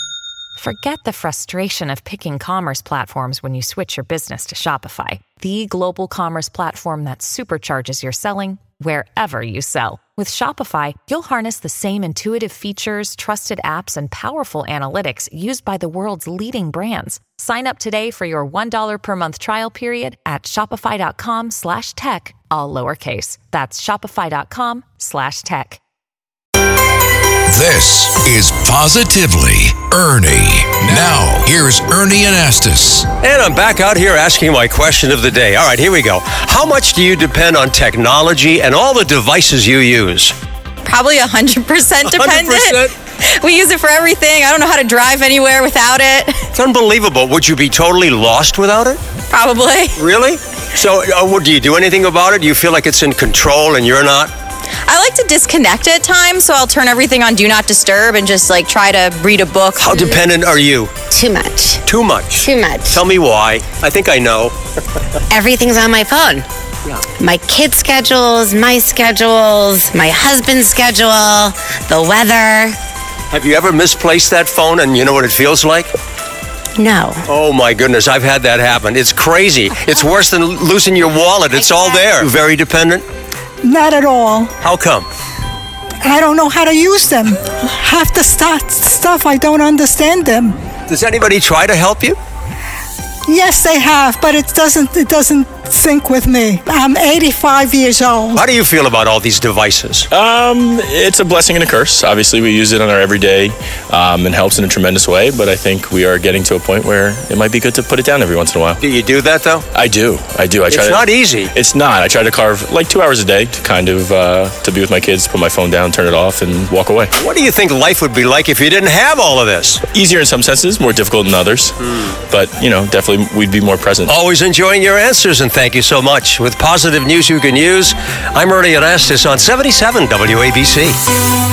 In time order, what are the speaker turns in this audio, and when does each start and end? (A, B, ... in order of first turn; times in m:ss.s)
0:00.6-0:25.8 A
0:27.5-0:33.1 B
0:33.2-0:40.3 C
0:40.8-0:46.4 D
0:42.0-0:42.9 C
0:46.5-0:49.0 C
0:49.3-0:50.0 D
0:50.0-0:54.3 C
0:54.9-1:00.2 D
0:59.8-1:00.9 C
1:01.1-1:01.8 E
1:01.8-1:04.5 C
1:02.4-1:03.0 E
1:05.3-1:06.4 E
1:07.2-1:12.8 E
1:13.3-1:15.9 C
1:16.8-1:17.2 E
1:17.2-1:23.0 C
1:23.6-1:24.5 F
1:24.6-1:25.1 C
1:26.0-1:30.6 F
1:30.9-1:32.2 C
1:33.3-1:38.4 F
1:38.4-1:40.1 C
1:40.1-1:48.8 G
1:48.8-1:49.6 C
1:49.7-1:57.1 G
1:50.7-1:51.5 C
1:57.2-1:59.8 C
1:59.9-2:01.8 G
2:02.3-2:04.1 G
2:04.0-2:11.0 C